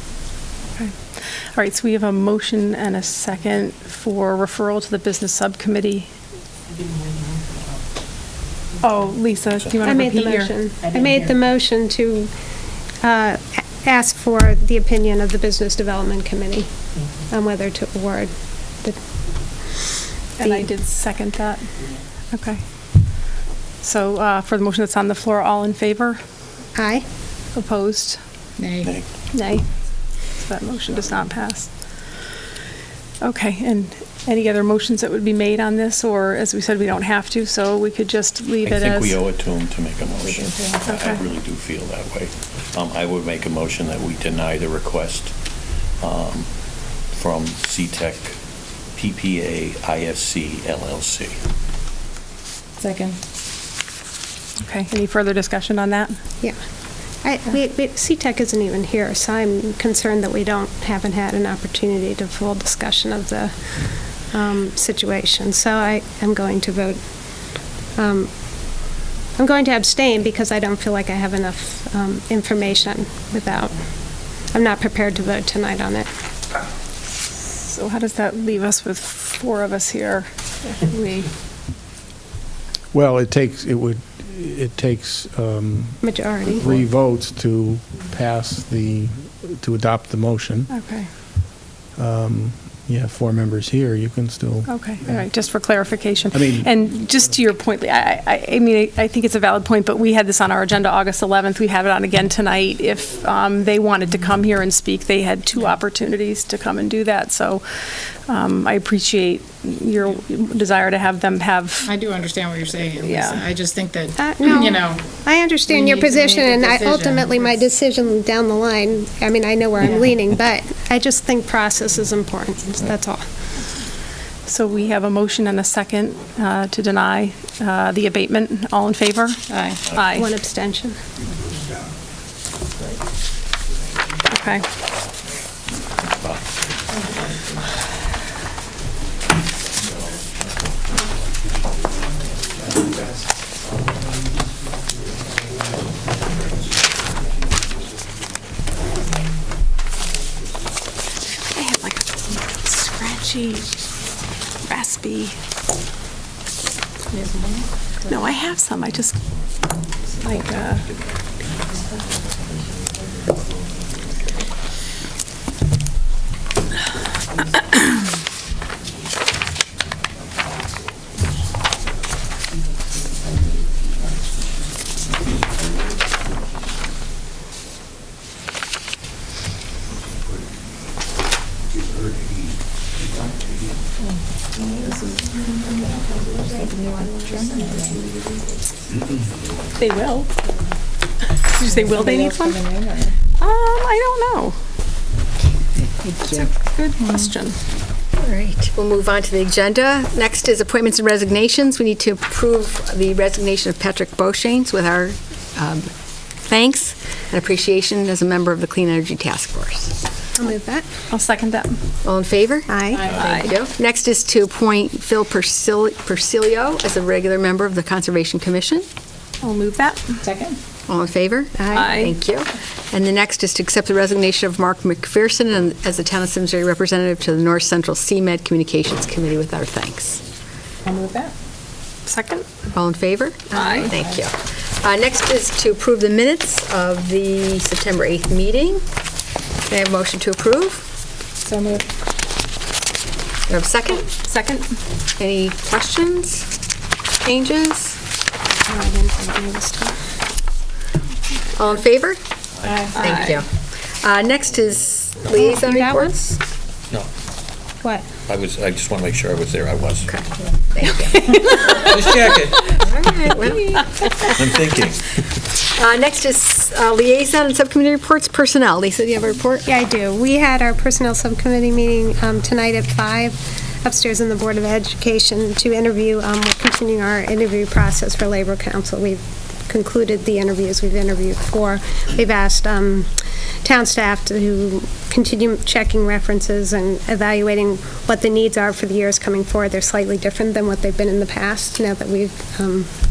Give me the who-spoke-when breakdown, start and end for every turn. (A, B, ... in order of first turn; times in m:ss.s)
0:00.8-0:06.1 A
0:08.8-0:10.5 A
0:09.8-0:12.3 B
0:10.9-0:11.3 C
0:13.0-0:19.0 B
0:20.4-0:21.7 A
0:20.4-0:20.7 B
0:22.3-0:22.6 A
0:23.8-0:26.2 A
0:26.8-0:27.0 B
0:27.5-0:28.2 A
0:28.8-0:29.1 D
0:29.3-0:29.7 A
0:30.3-0:31.8 A
0:33.2-0:39.2 A
0:38.6-0:45.4 D
0:40.2-0:40.8 C
0:40.9-0:41.2 A
0:46.0-0:48.4 D
0:48.9-0:51.4 D
0:52.8-0:53.2 C
0:54.6-0:56.2 A
0:57.2-1:16.1 B
1:17.5-1:21.3 A
1:22.9-1:30.7 E
1:26.0-1:26.8 B
1:30.7-1:31.1 A
1:32.0-1:35.3 E
1:34.7-1:51.9 A
1:36.3-1:36.7 E
1:51.8-1:54.9 C
1:53.0-1:53.5 A
1:54.2-2:03.3 B
1:55.7-1:57.6 C
2:04.4-2:10.3 A
2:09.5-2:09.8 C
2:09.9-2:10.2 D
2:10.1-2:11.0 B
2:14.3-2:14.6 A
2:16.0-2:16.4 D
2:31.5-2:33.9 A
2:34.6-2:35.4 A
2:37.1-2:37.7 C
2:38.1-2:39.2 A
2:40.2-2:40.9 A
2:40.8-2:41.1 D
3:06.6-3:08.2 C
3:09.8-3:10.3 A
3:11.4-3:12.7 A
3:11.6-3:13.2 C
3:13.3-3:14.6 A
3:16.1-3:16.5 C
3:16.3-3:17.6 A
3:17.0-3:17.3 C
3:18.2-3:25.9 F
3:26.4-3:30.0 F
3:30.4-3:30.9 B
3:31.1-3:31.8 A
3:32.0-3:38.9 F
3:32.7-3:33.1 B
3:32.9-3:33.2 C
3:33.2-3:33.5 A
3:39.4-3:40.2 A
3:40.2-3:40.6 C
3:40.9-3:50.2 F
3:41.6-3:42.1 B
3:41.7-3:42.2 A
3:50.8-3:51.3 C
3:52.0-3:52.5 A
3:52.7-3:58.8 F
3:53.5-3:53.9 A
3:53.7-3:54.3 C
3:59.7-4:00.9 F
4:01.4-4:01.9 C
4:03.5-4:04.1 F
4:04.1-4:04.8 A
4:05.2-4:06.5 F
4:07.2-4:08.0 F
4:08.7-4:10.0 B
4:11.6-4:12.2 F
4:12.6-4:13.0 D
4:12.7-4:13.0 C
4:13.0-4:13.5 F
4:13.1-4:13.3 A
4:14.0-4:16.4 F
4:15.3-4:16.2 B
4:18.3-4:20.2 D
4:20.1-4:21.9 F
4:21.6-4:22.8 D
4:22.6-4:24.4 F
4:24.3-4:25.1 D
4:25.7-4:29.7 F
4:29.6-4:43.1 B
4:43.6-4:52.9 B